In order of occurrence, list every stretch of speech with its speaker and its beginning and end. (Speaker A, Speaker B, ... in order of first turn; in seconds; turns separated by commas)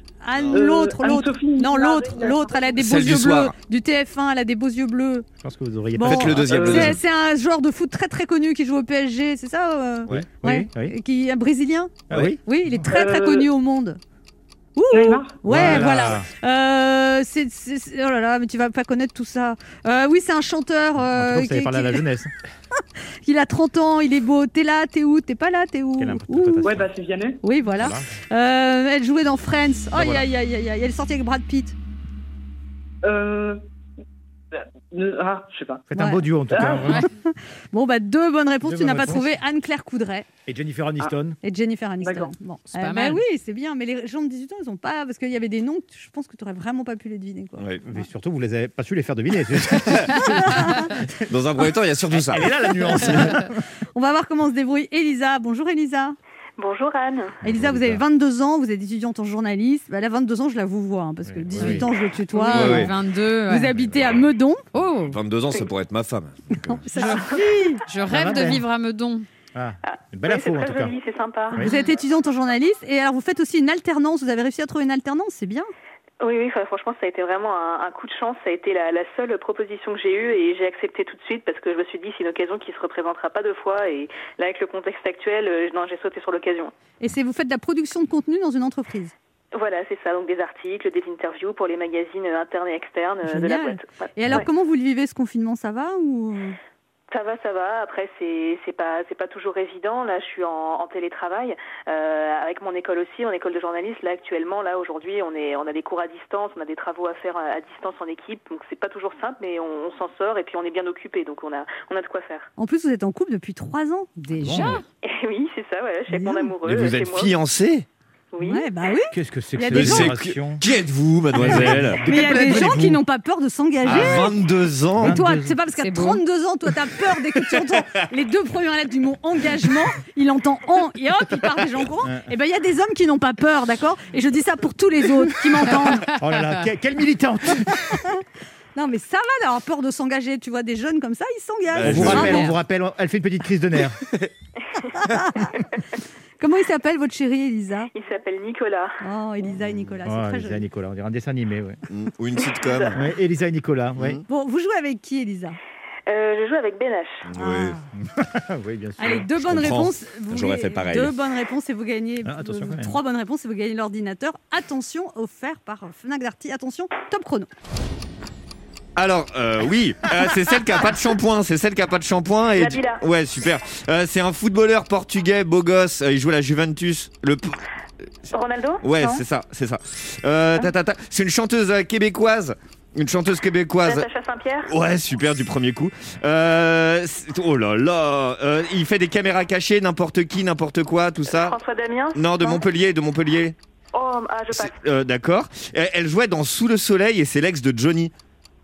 Speaker A: 0.2-5.3, Speaker B: 0.5-2.4, Speaker C: 2.1-2.8, Speaker D: 2.8-3.5, Speaker E: 5.4-6.9, Speaker A: 5.9-14.0, Speaker D: 6.0-7.0, Speaker B: 6.5-6.9, Speaker E: 10.1-10.9, Speaker D: 12.1-12.4, Speaker E: 12.1-12.9, Speaker B: 12.9-13.5, Speaker A: 14.8-22.0, Speaker B: 14.9-15.4, Speaker E: 15.4-16.3, Speaker D: 15.5-15.9, Speaker E: 21.1-22.3, Speaker A: 23.2-26.7, Speaker E: 26.0-26.9, Speaker B: 26.6-27.4, Speaker A: 27.4-31.7, Speaker E: 27.8-28.1, Speaker E: 29.9-30.3, Speaker B: 33.0-33.6, Speaker B: 34.5-35.9, Speaker E: 35.9-37.0, Speaker A: 36.0-36.3, Speaker B: 36.5-36.9, Speaker A: 37.1-40.3, Speaker E: 38.6-39.3, Speaker E: 40.5-41.4, Speaker A: 41.4-47.6, Speaker B: 42.0-42.3, Speaker F: 42.7-43.2, Speaker D: 47.6-47.8, Speaker E: 47.8-50.8, Speaker A: 50.2-50.8, Speaker D: 51.3-53.3, Speaker E: 52.1-53.5, Speaker A: 53.9-56.1, Speaker C: 56.6-57.4, Speaker A: 57.4-62.9, Speaker E: 57.5-58.0, Speaker E: 61.2-61.9, Speaker F: 61.6-63.7, Speaker D: 62.5-62.9, Speaker A: 63.5-64.6, Speaker F: 64.7-65.2, Speaker D: 65.1-66.8, Speaker A: 66.7-67.8, Speaker F: 67.0-67.2, Speaker F: 67.8-69.2, Speaker E: 68.1-68.6, Speaker E: 69.5-70.9, Speaker C: 69.9-71.6, Speaker A: 71.6-75.7, Speaker C: 76.2-86.7, Speaker A: 87.0-89.1, Speaker C: 89.5-94.5, Speaker A: 93.2-96.5, Speaker C: 97.1-112.5, Speaker A: 112.6-114.6, Speaker F: 114.2-114.8, Speaker E: 114.4-114.8, Speaker C: 115.0-117.3, Speaker A: 116.1-116.5, Speaker D: 116.6-117.8, Speaker C: 118.3-118.7, Speaker A: 118.4-120.2, Speaker E: 119.1-120.6, Speaker D: 119.7-122.0, Speaker E: 121.3-123.0, Speaker A: 122.0-124.4, Speaker E: 123.8-124.2, Speaker D: 123.8-125.2, Speaker E: 125.0-125.5, Speaker A: 125.0-136.1, Speaker F: 125.8-126.2, Speaker E: 136.2-138.0, Speaker A: 138.7-142.5, Speaker D: 141.7-142.5, Speaker E: 141.8-144.1, Speaker A: 145.0-145.5, Speaker A: 146.4-147.9, Speaker C: 147.9-148.9, Speaker A: 149.0-150.6, Speaker E: 150.1-151.8, Speaker D: 151.9-153.0, Speaker C: 152.6-152.9, Speaker E: 152.9-154.2, Speaker D: 154.0-154.2, Speaker A: 154.3-155.6, Speaker C: 156.1-157.2, Speaker D: 157.2-157.8, Speaker A: 157.3-157.8, Speaker E: 158.0-159.2, Speaker A: 159.0-167.5, Speaker D: 159.3-161.1, Speaker E: 162.2-163.0, Speaker D: 168.9-177.6, Speaker C: 172.5-173.0, Speaker C: 178.3-178.8, Speaker D: 178.8-184.1, Speaker C: 183.8-184.7, Speaker D: 184.7-191.6, Speaker C: 191.2-192.7, Speaker D: 192.1-193.6, Speaker C: 193.9-194.8, Speaker D: 194.5-198.1